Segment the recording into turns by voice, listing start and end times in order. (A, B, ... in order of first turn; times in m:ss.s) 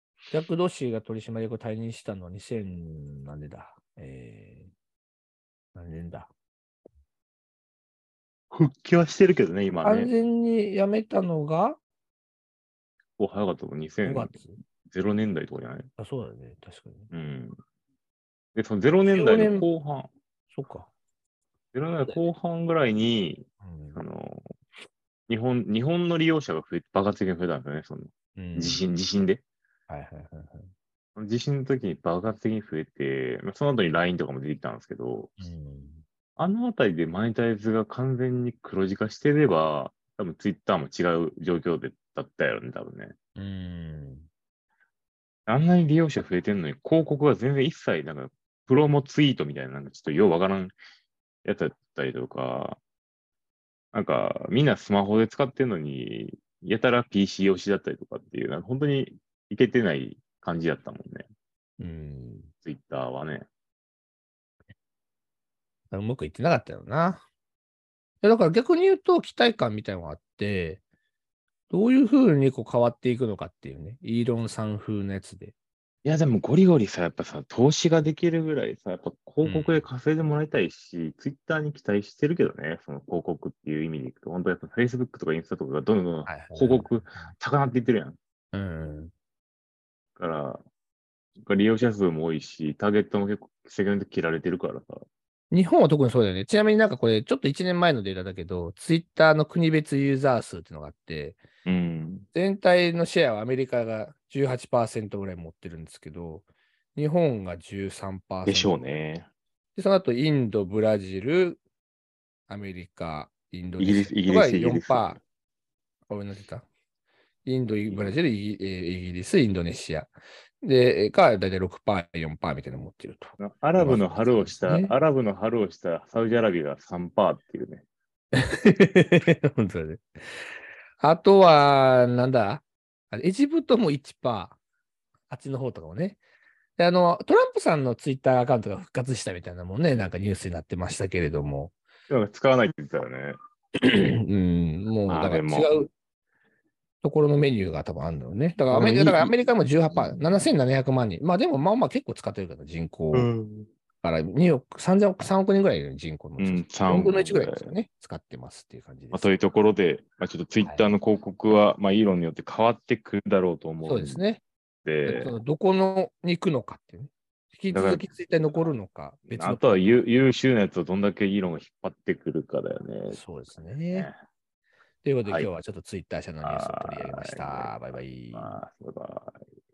0:00.3-0:04.7 A
0:05.8-0:06.3 A
0:08.5-0:10.1 B
0:09.8-0:11.8 A
0:13.2-0:15.9 B
0:14.0-0:14.6 A
0:16.0-0:17.1 A
0:17.1-0:17.6 B
0:18.6-0:20.1 B
0:19.1-0:19.7 A
0:20.5-0:20.9 A
0:21.7-0:24.4 B
0:23.6-0:24.0 A
0:25.3-0:29.4 B
0:28.4-0:28.8 A
0:29.9-0:30.7 A
0:31.2-0:35.4 B
0:35.4-0:36.0 A
0:36.4-0:43.2 B
0:43.4-0:44.3 A
0:45.5-0:50.7 B
0:51.4-0:52.8 B
0:53.9-1:01.2 B
1:01.8-1:02.5 A
1:02.6-1:03.5 B
1:05.9-1:07.2 A
1:08.2-1:10.8 A
1:11.7-1:15.5 A
1:16.0-1:28.2 B
1:19.4-1:19.8 A
1:26.3-1:27.3 A
1:28.5-1:29.1 A
1:30.2-1:30.6 B
1:31.4-1:35.0 B
1:35.5-1:41.4 A
1:41.7-1:42.3 B
1:42.3-1:48.8 A
1:48.5-1:49.3 B
1:49.8-1:51.6 A
1:52.5-1:55.2 A
1:53.8-1:55.2 B
1:56.1-1:56.7 A
1:57.4-2:04.9 A
1:57.9-1:58.2 B
2:03.4-2:07.8 B
2:08.3-2:10.0 A
2:11.0-2:14.6 A
2:15.3-2:16.2 A
2:16.8-2:21.7 A
2:22.1-2:23.4 B
2:23.8-2:25.9 A
2:25.1-2:25.9 B
2:27.0-2:33.3 A
2:28.7-2:29.3 B
2:29.9-2:30.5 B
2:33.1-2:33.7 B
2:34.0-2:39.3 A
2:36.4-2:37.7 B
2:39.1-2:44.2 B
2:40.6-2:40.9 A
2:43.8-2:44.4 A
2:44.8-2:45.4 B
2:45.0-2:50.0 A
2:47.7-2:48.7 B
2:49.3-2:53.2 B
2:53.1-2:54.1 A
2:55.0-2:58.6 A
2:56.4-2:57.8 B
2:58.3-2:59.4 B